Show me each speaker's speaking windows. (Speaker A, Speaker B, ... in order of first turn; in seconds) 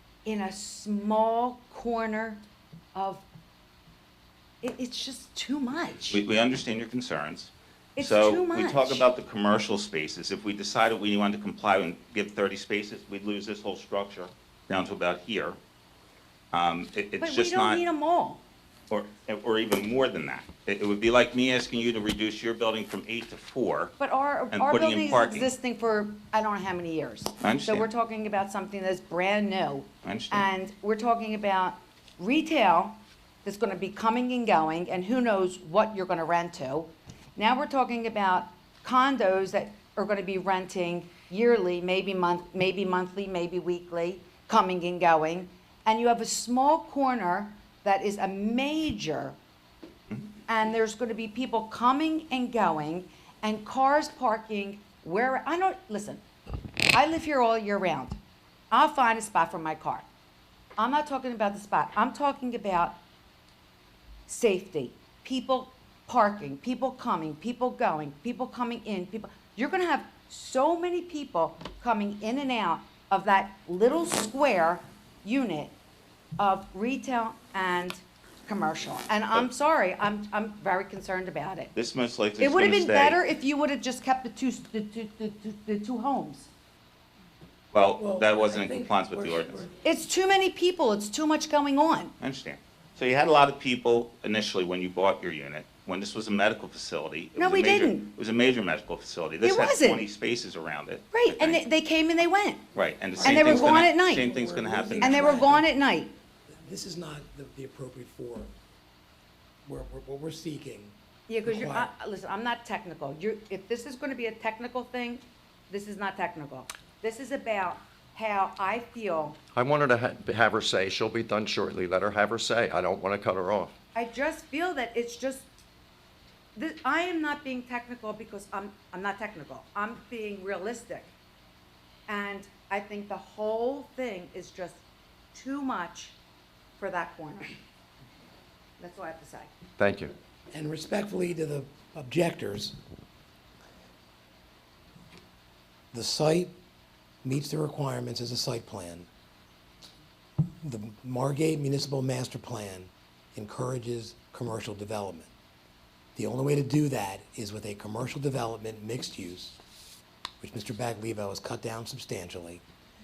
Speaker A: 0.2-3.2, 4.6-6.2, 8.0-9.1, 17.2-18.4, 24.0-49.4, 50.5-56.2, 56.9-58.2, 58.7-60.0, 60.8-63.0, 64.3-75.7, 76.4-81.7, 82.4-86.5, 89.8-92.1, 97.3-98.1, 99.4-100.0, 101.1-102.6, 103.2-104.3, 105.0-106.1, 111.3-119.4, 123.9-125.5, 126.5-131.1, 132.1-134.8, 135.3-136.2, 136.8-137.5, 138.8-139.5
Speaker B: 6.1-15.6, 16.5-17.8, 18.9-23.9, 24.5-25.5, 27.4-27.9, 30.0-30.5, 81.7-83.2, 87.7-89.6, 92.2-101.6, 102.7-105.6
Speaker C: 88.0-89.7, 103.2-105.7, 106.5-108.5, 109.6-110.9, 111.4-111.9, 140.5-142.8, 145.9-146.5, 147.2-149.1, 150.6-155.3, 156.2-159.6, 160.4-162.6
Speaker D: 119.5-123.7, 139.8-140.1